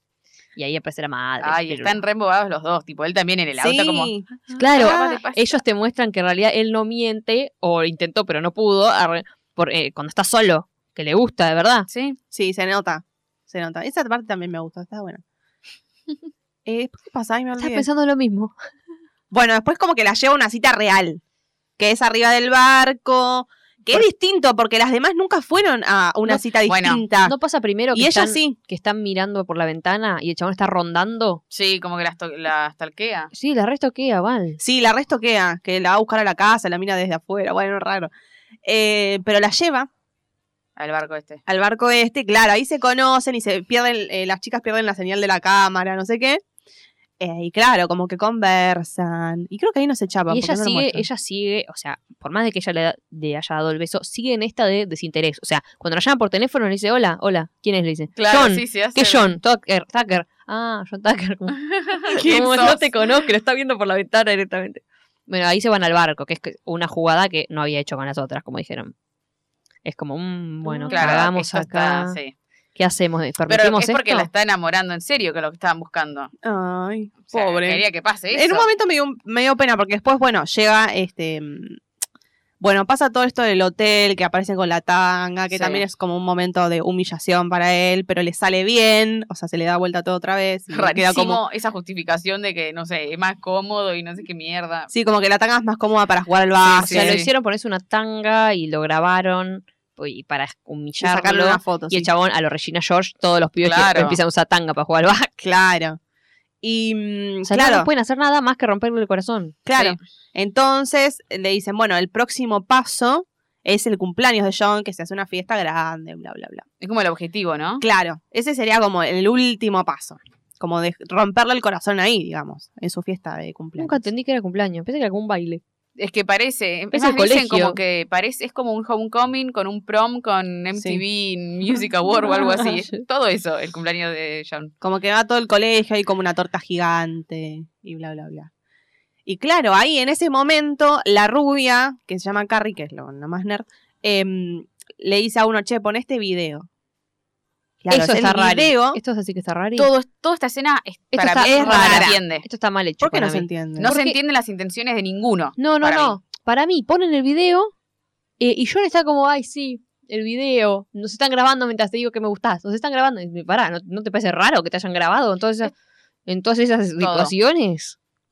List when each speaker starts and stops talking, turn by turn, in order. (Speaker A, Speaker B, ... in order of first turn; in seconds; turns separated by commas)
Speaker A: 0.6-2.0, Speaker B: 1.4-5.6, Speaker C: 3.6-5.2, Speaker A: 4.6-11.9, Speaker B: 11.9-12.2, Speaker C: 12.3-15.2, Speaker C: 16.7-17.9, Speaker A: 17.6-18.5, Speaker C: 19.3-21.2, Speaker C: 21.8-27.4, Speaker B: 26.7-27.0, Speaker A: 27.2-31.4, Speaker C: 27.9-28.6, Speaker B: 31.5-33.3, Speaker A: 33.3-34.6, Speaker C: 34.6-38.1, Speaker C: 38.6-39.9, Speaker B: 40.8-41.4, Speaker C: 41.5-46.4, Speaker C: 47.2-51.0, Speaker A: 50.3-68.9, Speaker B: 58.2-59.3, Speaker B: 61.6-62.8, Speaker A: 69.8-72.2, Speaker C: 70.7-71.2, Speaker B: 70.9-72.3, Speaker A: 72.8-74.3, Speaker B: 73.5-76.3, Speaker C: 76.4-81.8, Speaker B: 77.3-78.7, Speaker C: 82.6-91.4, Speaker B: 85.5-85.8, Speaker B: 90.7-94.9, Speaker C: 94.9-97.2, Speaker B: 96.6-97.3, Speaker A: 96.8-105.4, Speaker C: 101.0-102.1, Speaker B: 103.6-104.2, Speaker C: 105.4-106.0, Speaker C: 106.6-107.9, Speaker A: 107.5-109.6, Speaker C: 109.7-116.7, Speaker B: 116.8-117.8, Speaker C: 117.8-124.0, Speaker A: 123.8-125.6, Speaker B: 126.0-134.7, Speaker A: 126.9-127.8, Speaker C: 130.7-131.0, Speaker C: 134.8-138.5, Speaker C: 139.3-146.7, Speaker C: 147.8-149.0, Speaker A: 147.9-149.9, Speaker B: 149.8-152.4, Speaker A: 151.2-154.2, Speaker C: 151.4-152.2, Speaker C: 153.0-153.9, Speaker B: 153.8-156.2, Speaker A: 155.6-157.7, Speaker A: 158.4-165.7, Speaker A: 166.3-168.0, Speaker B: 167.0-167.3